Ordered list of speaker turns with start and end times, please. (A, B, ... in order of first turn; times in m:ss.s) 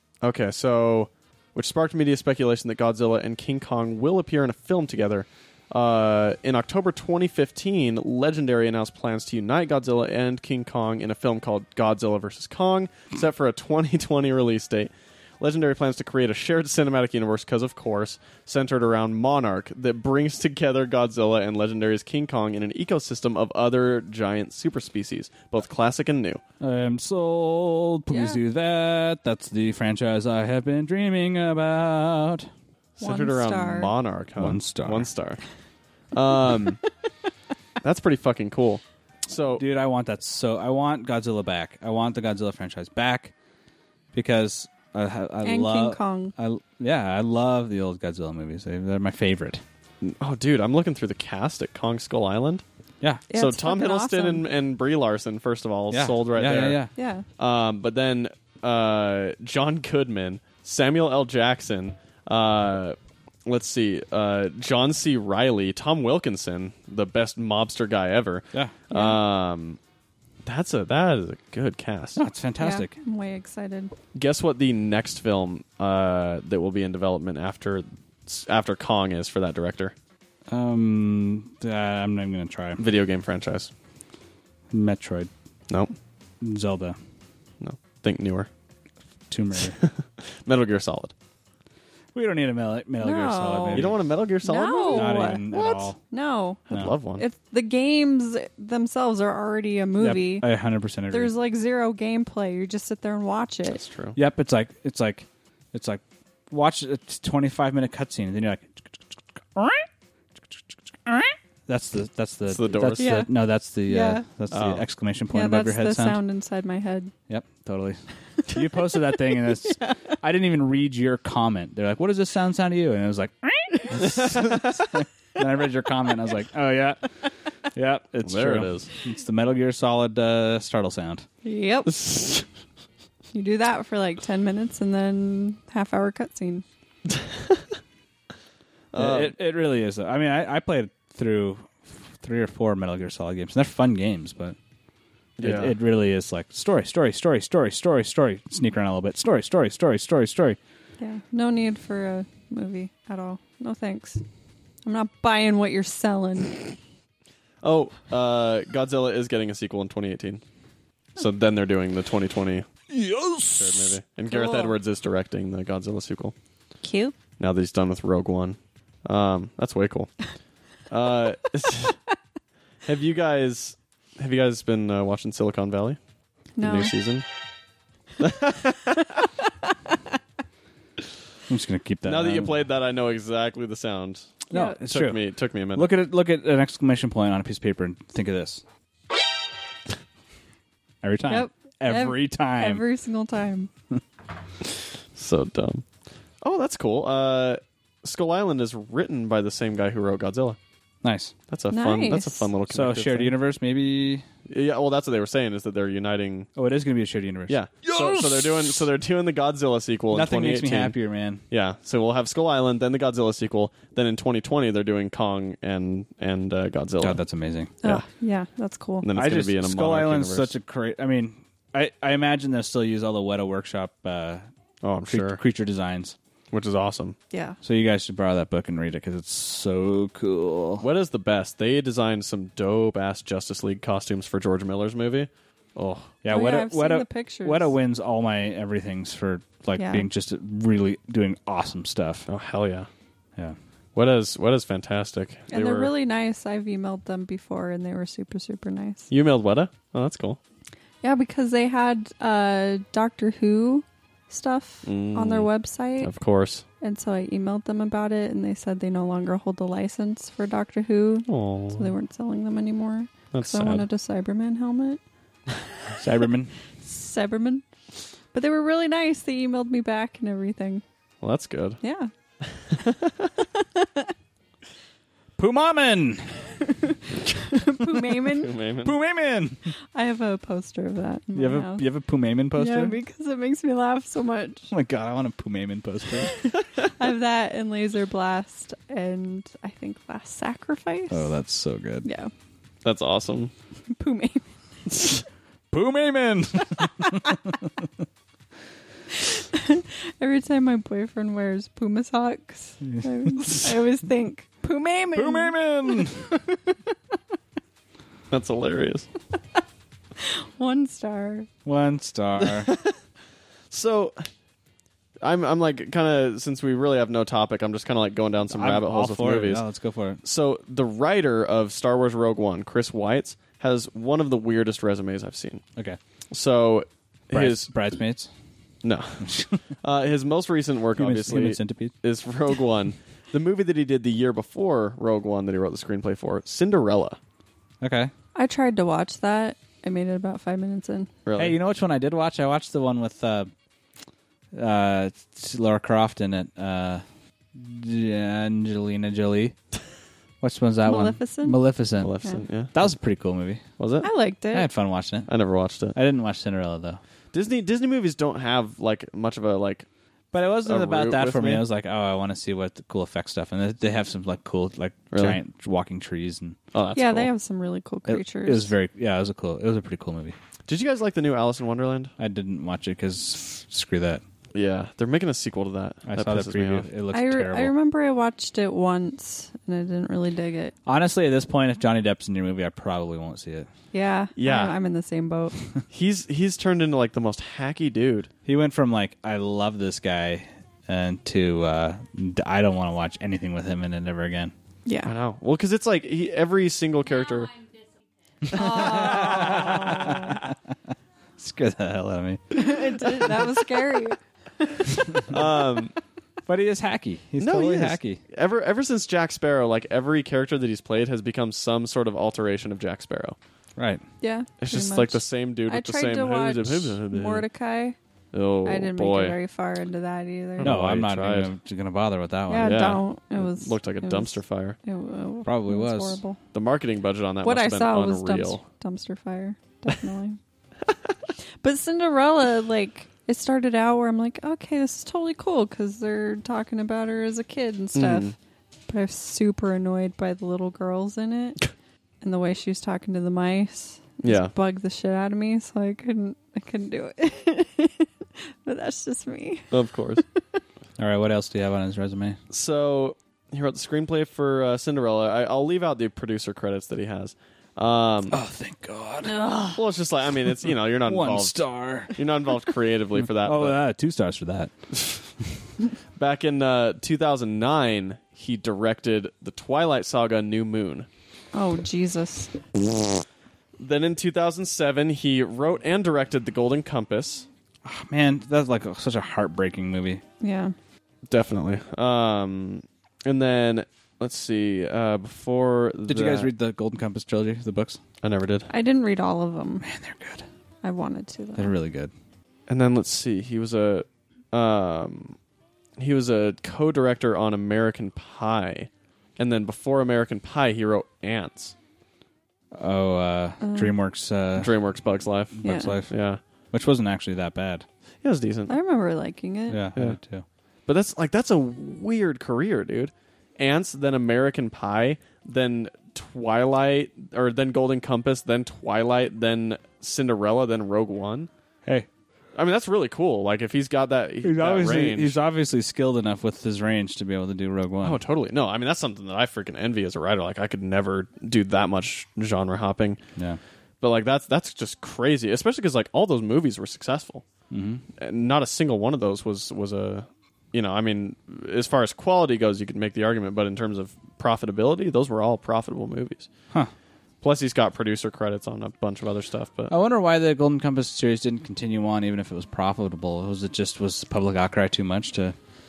0:00.2-0:26.4 A
0:26.6-0:32.5 B
0:28.1-0:28.4 C
0:33.0-0:35.4 A
0:33.0-0:33.9 C
0:34.4-0:35.1 B
0:36.1-0:36.8 A
0:37.8-0:39.6 A
0:39.5-0:43.3 B
0:44.1-0:49.6 B
0:45.4-0:46.3 C
0:50.0-0:52.6 A
0:53.3-0:54.4 C
0:53.3-0:56.8 A
0:55.9-0:56.9 B
0:57.0-0:57.2 C
0:57.4-1:09.8 A
1:08.9-1:09.2 C
1:10.4-1:12.2 A
1:12.2-1:12.9 B
1:12.6-1:13.9 C
1:14.1-1:19.9 A
1:20.5-1:22.8 B
1:22.8-1:23.7 A
1:24.7-1:25.3 B
1:26.4-1:27.0 B
1:27.6-1:28.5 A
1:29.3-1:29.8 B
1:29.7-1:31.1 A
1:32.1-1:34.0 B
1:33.0-1:33.9 C
1:33.7-1:35.9 A
1:34.4-1:35.5 C
1:34.9-1:36.0 B
1:36.1-1:36.6 C
1:36.7-1:37.2 A
1:37.2-1:40.5 C
1:40.0-1:41.3 B
1:41.1-1:43.8 C
1:43.7-1:44.2 A
1:44.1-1:49.9 B
1:51.0-1:56.2 B
1:52.5-1:53.1 A
1:53.0-1:53.3 C
1:53.8-1:54.2 C
1:54.5-1:54.8 A
1:55.3-1:57.1 C
1:57.3-2:07.1 B
2:04.3-2:04.6 A
2:07.7-2:11.2 B
2:08.2-2:08.9 A
2:11.4-2:12.0 C
2:11.9-2:12.4 A
2:13.3-2:16.6 C
2:17.1-2:17.6 A
2:18.9-2:19.3 A
2:19.0-2:24.6 B
2:25.4-2:25.8 A
2:25.4-2:30.6 B
2:31.0-2:34.2 C
2:34.8-2:36.7 C
2:37.6-2:40.4 A
2:41.2-2:42.7 A
2:42.9-2:43.9 B
2:43.5-2:46.3 A
2:44.3-2:44.7 C
2:46.8-2:47.1 C
2:47.4-2:50.3 A
2:50.9-2:52.0 A
2:52.8-2:56.0 A
2:56.6-2:56.9 C
2:56.6-2:57.2 A
2:58.2-2:59.1 A
3:01.5-3:02.5 B
3:02.0-3:05.9 A
3:04.5-3:05.2 B
3:04.5-3:04.8 C
3:05.8-3:08.6 B
3:11.0-3:12.8 B
3:11.3-3:13.7 C
3:15.1-3:15.8 A
3:16.4-3:20.6 A
3:21.0-3:21.3 B
3:21.5-3:23.3 A
3:21.7-3:22.5 C
3:22.7-3:24.2 B
3:24.5-3:26.5 A
3:26.6-3:28.8 B
3:27.5-3:30.9 A
3:30.1-3:31.4 B
3:31.5-3:37.2 A
3:37.0-3:37.7 B
3:37.8-3:39.1 C
3:39.0-3:40.5 A
3:39.2-3:44.4 B
3:44.8-3:45.4 A
3:45.1-3:46.1 B
3:46.5-3:47.2 A
3:47.3-3:47.6 C
3:47.6-3:50.8 B
3:50.8-3:56.1 A
3:56.2-4:02.2 B
3:56.3-3:57.7 C
3:59.8-4:00.1 C
4:02.3-4:02.9 A
4:04.0-4:05.9 A
4:05.5-4:09.1 C
4:09.1-4:10.4 A
4:11.0-4:16.1 C
4:14.8-4:15.5 A
4:16.0-4:16.6 A
4:16.8-4:25.0 C
4:21.3-4:21.9 A
4:23.3-4:23.8 A
4:26.0-4:26.5 B
4:26.8-4:27.6 C
4:28.3-4:30.8 C
4:31.2-4:31.8 A
4:31.8-4:32.1 C
4:32.5-4:33.3 A
4:33.5-4:34.1 C
4:35.4-4:36.4 B
4:36.6-4:38.5 C
4:38.2-4:39.0 A
4:38.8-4:39.6 B
4:39.9-4:41.8 C
4:41.3-4:43.0 B
4:42.5-4:44.7 C
4:44.7-4:46.4 B
4:46.5-4:51.3 C
4:51.1-4:52.1 B
4:52.0-4:52.3 C
4:52.8-4:53.5 A
4:53.9-4:54.4 C
4:55.7-4:57.5 B
4:59.1-5:06.8 C
5:03.4-5:03.7 B
5:05.1-5:06.4 B
5:08.3-5:09.1 A
5:10.2-5:11.5 C
5:11.6-5:12.7 B
5:12.4-5:12.9 A
5:13.7-5:14.3 A
5:15.2-5:19.6 A
5:18.5-5:20.2 B
5:20.2-5:25.6 A
5:26.3-5:27.7 A
5:27.3-5:28.3 B
5:28.8-5:37.2 A
5:29.2-5:29.6 B
5:31.0-5:31.9 B
5:37.8-5:38.1 B
5:38.3-5:41.1 C
5:41.2-5:41.6 A
5:41.4-5:43.5 B
5:44.5-5:47.0 B
5:47.5-5:49.6 B
5:50.4-5:52.1 B
5:50.8-5:51.6 C
5:52.0-5:52.7 A
5:52.7-5:53.6 B
5:53.8-5:54.1 A
5:54.0-5:54.7 C
5:54.5-5:55.3 B
5:55.3-5:56.0 A
5:55.9-5:57.0 B
5:57.3-5:59.8 A
6:00.3-6:06.6 B
6:00.6-6:01.6 A
6:05.1-6:05.4 A
6:06.7-6:07.3 A
6:06.9-6:08.7 C
6:08.1-6:10.4 B
6:10.7-6:12.1 A
6:12.2-6:14.2 B
6:14.5-6:16.9 A
6:16.0-6:17.7 B
6:17.1-6:20.7 C
6:20.8-6:23.7 B
6:23.9-6:25.5 C
6:24.4-6:24.8 A
6:25.9-6:28.3 A
6:28.4-6:34.5 B
6:34.8-6:35.1 C
6:35.0-6:37.6 A
6:38.4-6:40.7 B
6:38.5-6:40.4 C
6:38.7-6:39.7 A
6:41.4-6:43.4 B
6:42.5-6:45.4 C
6:45.3-6:45.9 A
6:46.4-6:48.2 B
6:47.4-6:53.4 A
6:53.8-6:54.0 B
6:54.2-6:58.0 C
6:54.6-6:57.4 A
6:58.3-6:59.4 A
6:58.6-7:00.8 C
7:00.6-7:01.5 A
7:00.6-7:02.9 B
7:02.5-7:06.4 C
7:02.6-7:04.8 A
7:05.4-7:06.2 B
7:06.5-7:08.6 A
7:07.4-7:10.4 C
7:11.6-7:18.3 C
7:17.9-7:18.3 A
7:18.9-7:21.7 C
7:22.2-7:29.7 C
7:24.2-7:24.5 A
7:29.7-7:30.2 A
7:31.0-7:32.4 B
7:32.5-7:38.4 A
7:38.3-7:39.8 B
7:39.7-7:43.8 A
7:41.1-7:42.2 B
7:43.2-7:44.7 B
7:46.2-7:51.1 A
7:51.5-7:52.5 C
7:53.8-7:57.4 A
7:57.8-8:00.2 B
8:00.4-8:00.7 C
8:01.3-8:06.5 A
8:06.1-8:08.0 B
8:08.2-8:08.7 A
8:08.7-8:09.8 C
8:09.8-8:10.4 B
8:10.8-8:11.7 C
8:11.6-8:12.1 B
8:12.7-8:15.4 A
8:16.0-8:21.7 A
8:22.7-8:24.7 B
8:23.6-8:23.9 C
8:24.6-8:26.4 A
8:25.6-8:26.1 B
8:25.6-8:25.9 C
8:26.7-8:27.8 B
8:28.2-8:28.7 A
8:28.7-8:29.8 C
8:29.7-8:30.4 B
8:30.9-8:41.5 A
8:42.5-8:45.4 A
8:44.4-8:48.2 B
8:48.0-8:53.2 A
8:54.0-8:57.4 A
8:57.7-8:58.0 B
8:58.2-9:06.5 A
9:07.4-9:09.9 A
9:09.9-9:15.6 B